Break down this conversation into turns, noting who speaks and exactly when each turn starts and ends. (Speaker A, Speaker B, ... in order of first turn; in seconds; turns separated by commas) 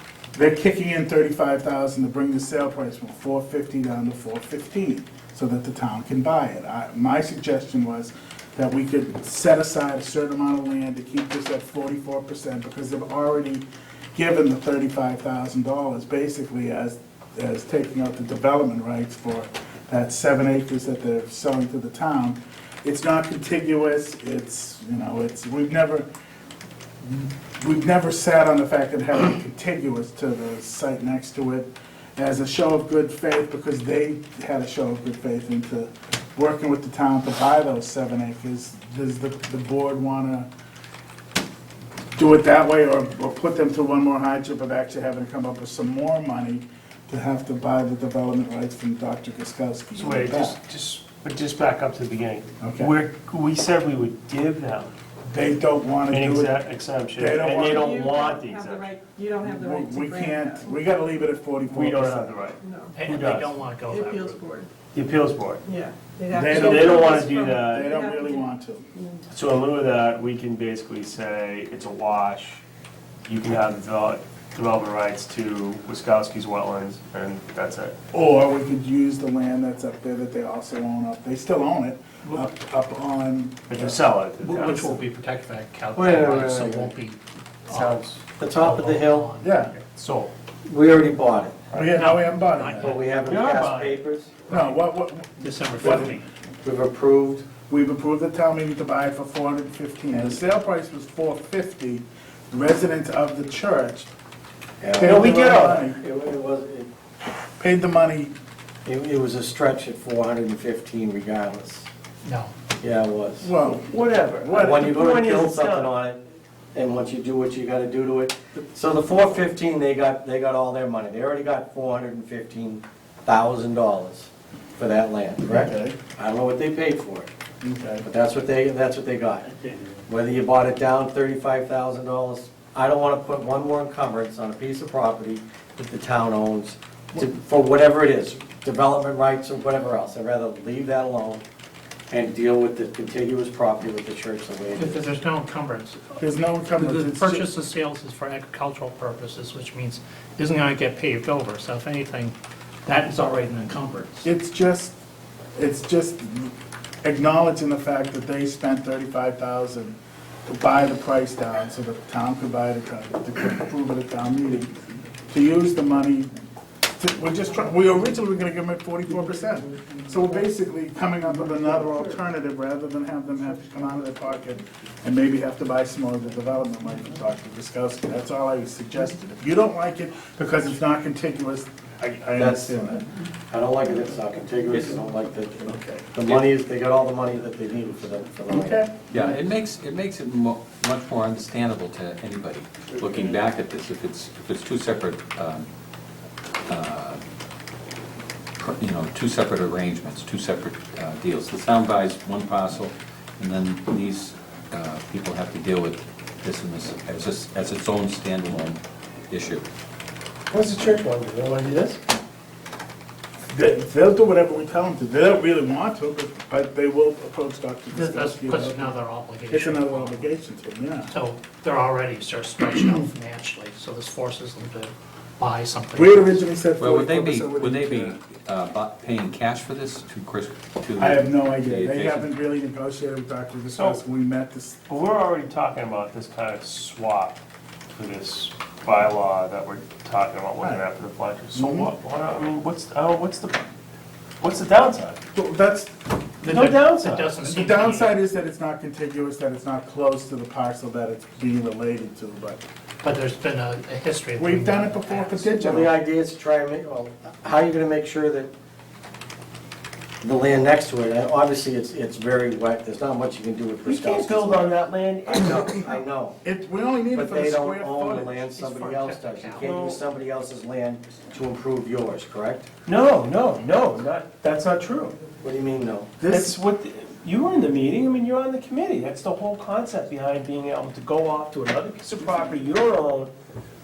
Speaker A: 0.3-26.1, Speaker A: 27.0-40.5, Speaker A: 42.1-50.6, Speaker B: 50.0-54.9, Speaker A: 52.6-52.9, Speaker A: 55.3-56.6, Speaker B: 56.1-59.0, Speaker A: 57.2-57.9, Speaker C: 57.7-60.9, Speaker A: 59.4-62.4, Speaker B: 61.7-63.6, Speaker C: 62.6-63.0, Speaker D: 62.9-64.5, Speaker C: 63.9-64.7, Speaker B: 64.9-65.7, Speaker C: 65.7-69.2, Speaker A: 66.3-68.9, Speaker B: 66.5-67.9, Speaker B: 69.3-72.6, Speaker B: 73.3-78.0, Speaker A: 78.1-84.0, Speaker B: 83.7-84.9, Speaker D: 84.4-89.8, Speaker E: 86.0-86.9, Speaker B: 87.7-88.2, Speaker E: 88.4-89.3, Speaker A: 89.4-89.7, Speaker B: 89.9-90.3, Speaker E: 90.7-91.6, Speaker A: 91.7-92.9, Speaker D: 91.9-93.1, Speaker E: 92.8-94.3, Speaker B: 93.2-94.0, Speaker A: 94.5-96.2, Speaker D: 94.5-94.8, Speaker D: 95.4-96.3, Speaker E: 96.6-97.5, Speaker A: 97.7-104.1, Speaker E: 104.8-106.9, Speaker A: 105.0-106.0, Speaker B: 105.0-105.9, Speaker A: 107.6-108.3, Speaker E: 108.8-111.9, Speaker D: 112.2-112.5, Speaker E: 112.8-113.7, Speaker A: 113.4-114.9, Speaker B: 113.8-115.9, Speaker E: 114.5-116.2, Speaker E: 116.7-127.3, Speaker A: 125.5-126.0, Speaker A: 127.6-128.1, Speaker E: 128.0-129.5, Speaker E: 130.1-141.4, Speaker E: 142.1-145.1, Speaker D: 144.8-146.2, Speaker A: 146.2-147.5, Speaker D: 146.8-152.3, Speaker D: 152.9-154.3, Speaker A: 154.2-155.0, Speaker A: 155.6-164.8, Speaker A: 165.3-166.3, Speaker A: 167.0-183.1, Speaker E: 182.4-183.0, Speaker E: 183.5-188.8, Speaker A: 185.6-186.3, Speaker A: 188.5-188.9, Speaker F: 189.1-195.7, Speaker F: 196.7-197.2, Speaker F: 198.6-209.7, Speaker B: 210.5-212.0, Speaker A: 213.5-219.0, Speaker D: 217.9-220.2, Speaker A: 219.5-221.1, Speaker D: 221.1-226.4, Speaker A: 225.9-228.2, Speaker F: 226.8-232.3, Speaker A: 231.0-234.8, Speaker B: 233.7-234.0, Speaker B: 234.9-237.4, Speaker B: 237.9-243.7, Speaker A: 241.5-241.9, Speaker B: 244.4-245.2, Speaker A: 245.3-245.9, Speaker B: 246.4-247.4, Speaker D: 246.4-248.2, Speaker A: 247.4-252.6, Speaker D: 253.0-255.3, Speaker A: 254.4-256.0, Speaker E: 255.4-258.5, Speaker E: 260.2-266.4, Speaker B: 263.8-266.0, Speaker A: 266.4-268.5, Speaker E: 267.1-272.7, Speaker D: 268.5-269.8, Speaker B: 269.6-270.0, Speaker B: 272.9-275.2, Speaker E: 275.4-276.2, Speaker A: 276.2-276.6, Speaker B: 276.3-283.3